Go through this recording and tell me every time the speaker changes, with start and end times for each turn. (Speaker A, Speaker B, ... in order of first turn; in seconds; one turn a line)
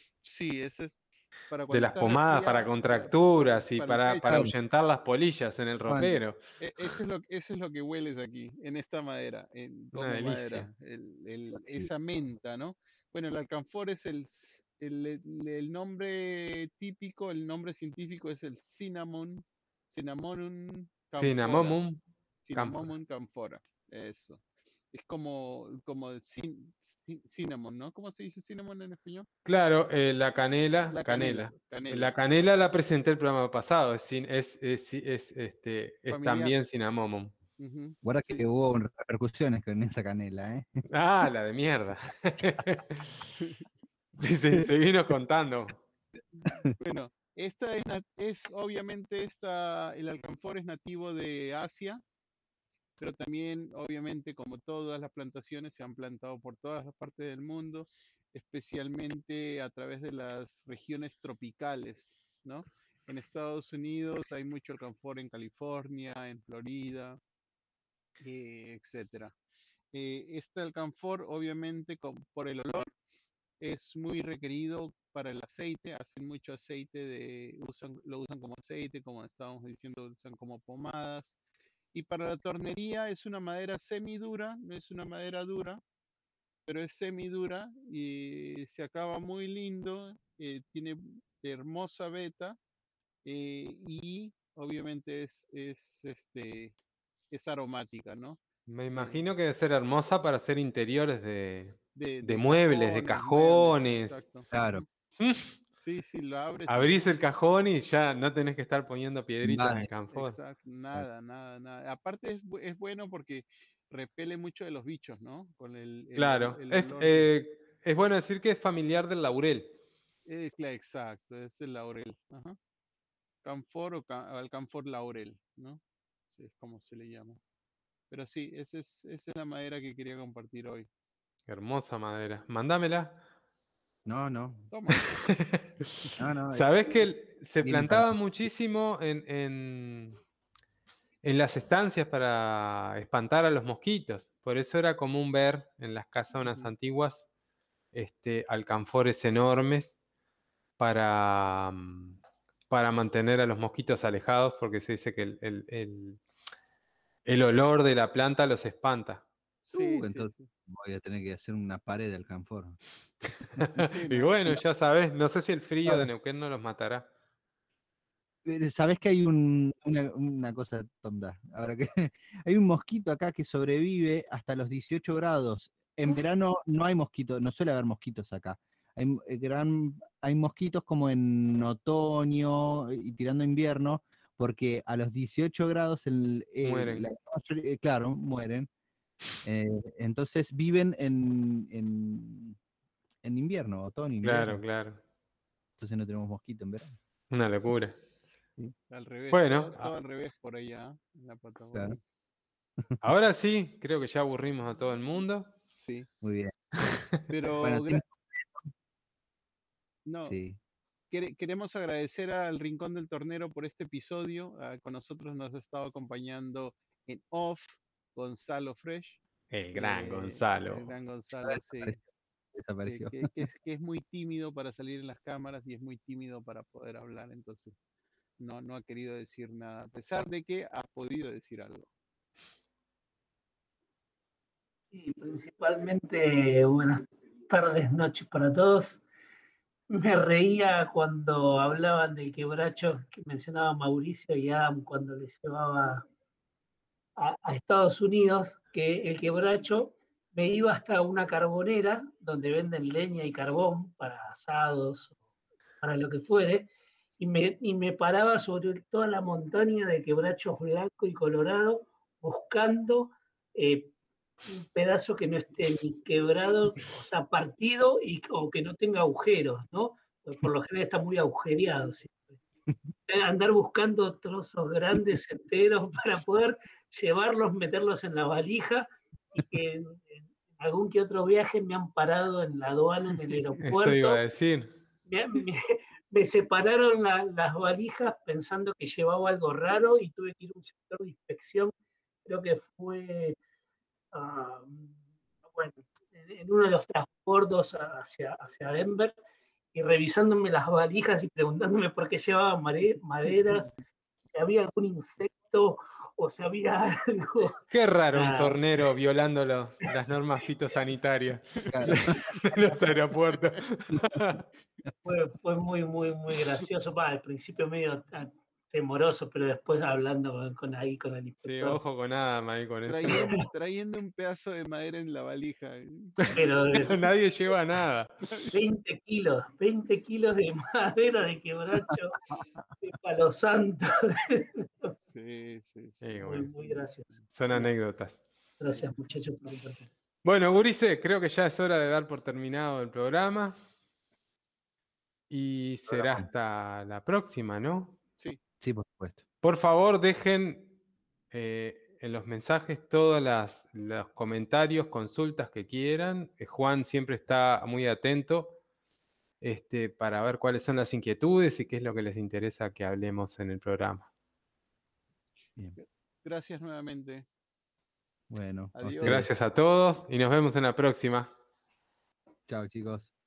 Speaker A: 0.2-3.1
Speaker B: 1.7-6.4
Speaker A: 3.7-4.4
Speaker C: 4.3-4.5
Speaker C: 5.9-6.2
Speaker A: 6.6-21.8
Speaker B: 9.9-10.7
Speaker B: 21.1-22.0
Speaker A: 22.4-29.3
Speaker B: 22.5-22.9
Speaker B: 29.4-37.3
Speaker A: 30.9-32.1
Speaker A: 36.1-36.6
Speaker A: 37.6-38.5
Speaker C: 38.0-40.8
Speaker B: 40.9-43.1
Speaker B: 44.2-45.8
Speaker A: 46.5-52.0
Speaker A: 53.0-67.2
Speaker A: 68.2-69.3
Speaker A: 69.9-72.9
Speaker A: 73.6-81.3
Speaker A: 81.9-85.8
Speaker A: 86.7-92.6
Speaker A: 93.2-96.7
Speaker A: 97.3-98.4
Speaker B: 98.7-104.2
Speaker A: 98.9-99.2
Speaker A: 101.9-104.8
Speaker C: 104.5-104.8
Speaker B: 105.2-105.5
Speaker A: 105.8-107.0
Speaker B: 106.7-110.4
Speaker C: 109.4-109.9
Speaker A: 110.1-117.3
Speaker B: 116.2-119.7
Speaker A: 120.2-122.6
Speaker A: 123.4-125.8
Speaker A: 126.3-127.4
Speaker A: 128.1-130.9
Speaker B: 131.5-133.2
Speaker C: 134.1-134.7
Speaker A: 134.7-135.1
Speaker B: 135.0-140.2
Speaker C: 136.2-136.7
Speaker C: 137.6-138.2
Speaker B: 141.2-147.2
Speaker A: 146.4-146.7
Speaker B: 147.9-149.9
Speaker B: 150.8-152.2
Speaker B: 152.7-156.2
Speaker B: 157.2-159.2
Speaker A: 159.7-160.5
Speaker C: 159.7-162.8
Speaker B: 163.6-167.1
Speaker A: 163.8-164.3
Speaker C: 168.4-188.7
Speaker B: 186.6-187.1
Speaker C: 189.4-192.6
Speaker C: 193.2-194.6
Speaker B: 194.2-195.0
Speaker C: 195.8-197.0
Speaker B: 197.3-198.0
Speaker A: 198.9-202.0
Speaker B: 199.3-199.9
Speaker B: 203.0-205.5
Speaker A: 205.7-206.1
Speaker C: 206.2-206.6
Speaker A: 207.3-208.0
Speaker C: 207.6-208.6
Speaker A: 210.1-210.4
Speaker C: 210.2-210.6
Speaker A: 211.1-219.2
Speaker B: 219.5-220.9
Speaker A: 219.7-222.0
Speaker C: 221.4-222.0
Speaker C: 222.5-223.3
Speaker A: 222.8-227.8
Speaker A: 228.4-231.9
Speaker D: 234.9-239.0
Speaker D: 239.9-246.1
Speaker D: 247.2-255.2
Speaker D: 255.8-263.9
Speaker D: 264.5-272.3
Speaker D: 273.1-284.2
Speaker B: 283.6-284.7
Speaker D: 285.1-291.7
Speaker D: 292.2-293.4
Speaker D: 294.1-295.0
Speaker D: 295.5-299.1
Speaker D: 299.7-303.8
Speaker D: 304.3-308.6
Speaker B: 307.7-314.4
Speaker C: 311.7-312.3
Speaker D: 315.0-321.8
Speaker B: 321.4-323.4
Speaker A: 322.9-326.4
Speaker D: 323.1-323.4
Speaker B: 326.2-328.3
Speaker D: 326.3-327.1
Speaker D: 328.5-334.9
Speaker A: 335.1-336.0
Speaker B: 336.0-336.5
Speaker D: 336.2-337.2
Speaker B: 337.3-338.2
Speaker D: 338.6-339.9
Speaker B: 340.2-343.5
Speaker B: 345.3-348.0
Speaker C: 348.6-349.2
Speaker B: 349.4-350.7
Speaker B: 351.3-358.6
Speaker B: 359.4-364.1
Speaker A: 365.8-367.3
Speaker C: 368.3-369.3
Speaker A: 368.7-369.3
Speaker B: 369.0-371.3
Speaker C: 372.5-373.1